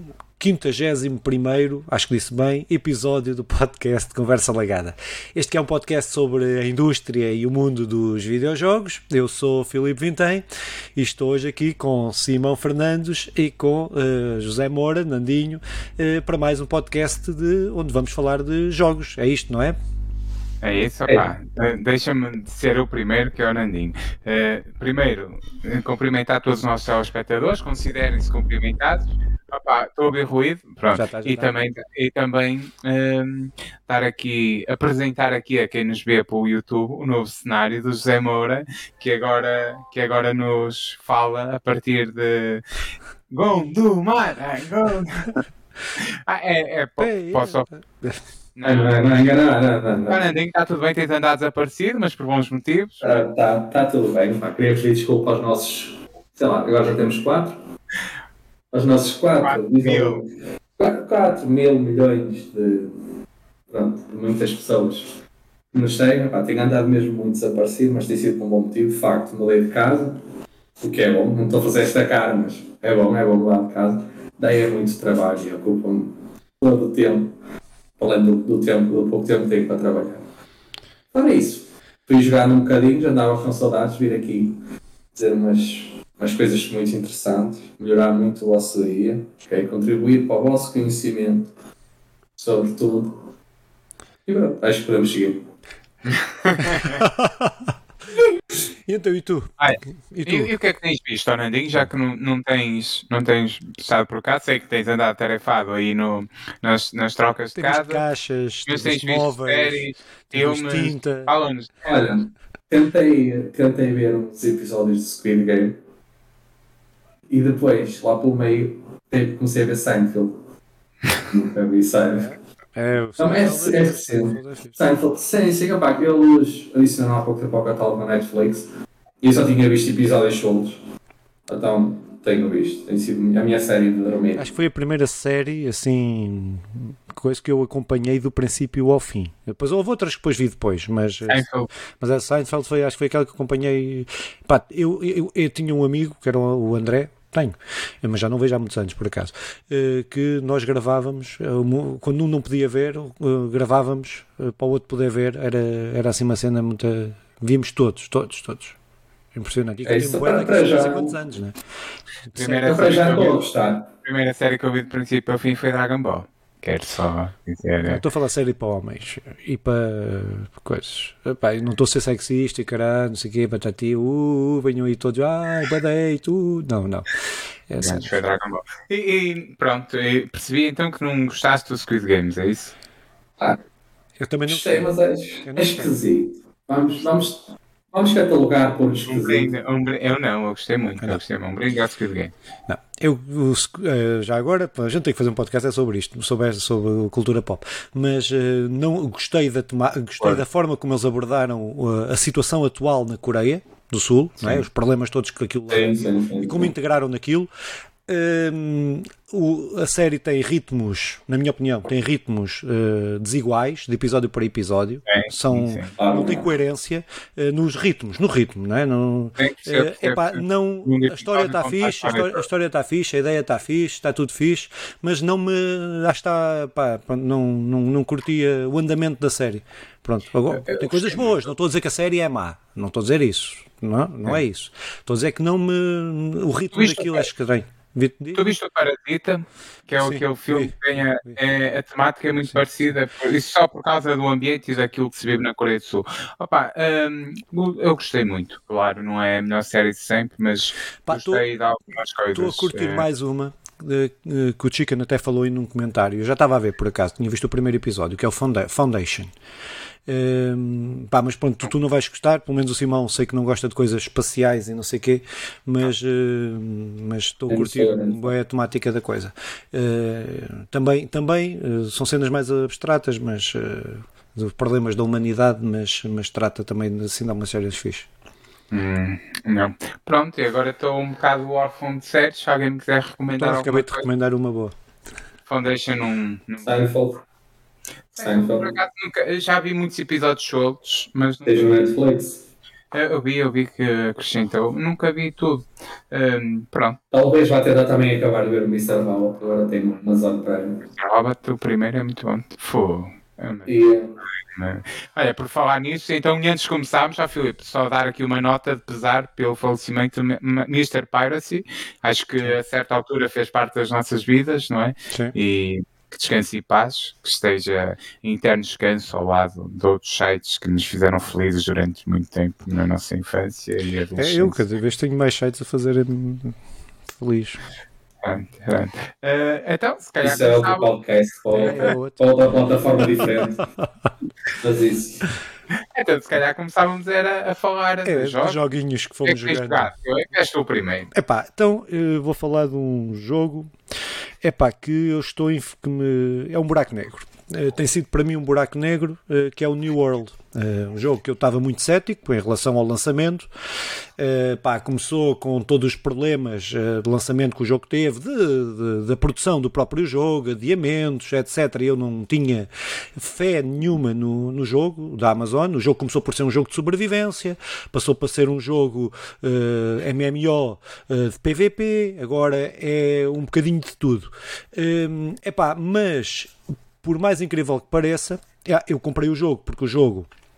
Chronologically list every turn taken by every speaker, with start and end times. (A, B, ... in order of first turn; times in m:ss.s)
0:00.4-0:10.4 A
0:11.0-0:19.8 A
0:20.6-0:42.6 B
0:30.9-0:31.6 A
0:43.3-0:45.3 B
0:46.0-0:47.7 B
0:47.0-0:48.2 A
0:48.6-0:49.4 B
0:48.6-0:50.3 C
0:50.1-0:53.0 B
0:53.0-0:57.6 C
0:58.7-1:02.9 C
0:59.4-1:00.2 B
1:03.7-1:05.2 C
1:05.7-1:10.2 C
1:10.8-1:17.3 C
1:18.0-1:20.2 C
1:21.1-1:24.6 C
1:25.2-1:31.5 C
1:32.4-1:33.2 C
1:34.3-1:35.4 C
1:36.1-1:37.0 B
1:36.8-1:37.7 A
1:38.9-1:40.5 A
1:39.6-1:48.0 B
1:47.6-1:51.3 A
1:48.7-1:51.7 B
1:51.8-1:55.8 C
1:57.3-2:00.4 C
2:01.2-2:02.3 C
2:02.2-2:04.8 A
2:03.2-2:08.7 C
2:09.2-2:10.8 C
2:11.5-2:14.4 C
2:14.4-2:21.4 A
2:21.3-2:21.7 B
2:22.0-2:38.8 A
2:39.3-2:41.6 A
2:39.8-2:41.1 C
2:42.3-2:43.0 A
2:42.4-2:43.4 B
2:42.6-2:43.9 C
2:44.0-2:48.0 B
2:47.8-2:57.1 A
2:57.7-2:58.2 A
2:57.8-3:02.7 B
3:04.2-3:04.9 A
3:04.5-3:09.6 C
3:05.4-3:06.0 A
3:09.1-3:12.3 B
3:12.7-3:27.5 A
3:25.7-3:26.7 C
3:28.1-3:58.5 A
3:35.1-3:35.9 B
3:36.0-3:36.5 C
3:39.4-3:42.4 B
3:50.5-3:51.3 B
3:56.7-3:57.3 B
3:58.4-4:13.0 B
4:00.0-4:01.4 A
4:11.1-4:11.4 A
4:12.3-4:19.3 A
4:20.1-4:38.1 A
4:27.5-4:28.2 C
4:38.7-4:44.0 B
4:43.4-4:44.7 A
4:45.5-4:46.8 B
4:46.7-4:47.2 C
4:48.1-4:51.8 B
4:48.2-4:48.7 C
4:51.5-4:52.4 C
4:52.9-4:57.0 B
4:57.1-5:00.8 C
5:01.0-5:03.7 B
5:03.7-5:04.1 C
5:04.5-5:24.6 B
5:15.1-5:15.4 A
5:24.2-5:26.6 A
5:27.1-5:27.6 A
5:28.2-5:30.9 B
5:30.2-5:33.6 C
5:31.6-5:31.9 B
5:31.6-5:32.3 A
5:33.0-5:33.9 A
5:34.5-5:35.3 C
5:36.0-5:38.6 B
5:38.0-5:39.9 A
5:39.2-5:41.1 B
5:41.1-5:43.7 A
5:44.4-5:53.5 A
5:54.2-6:20.3 A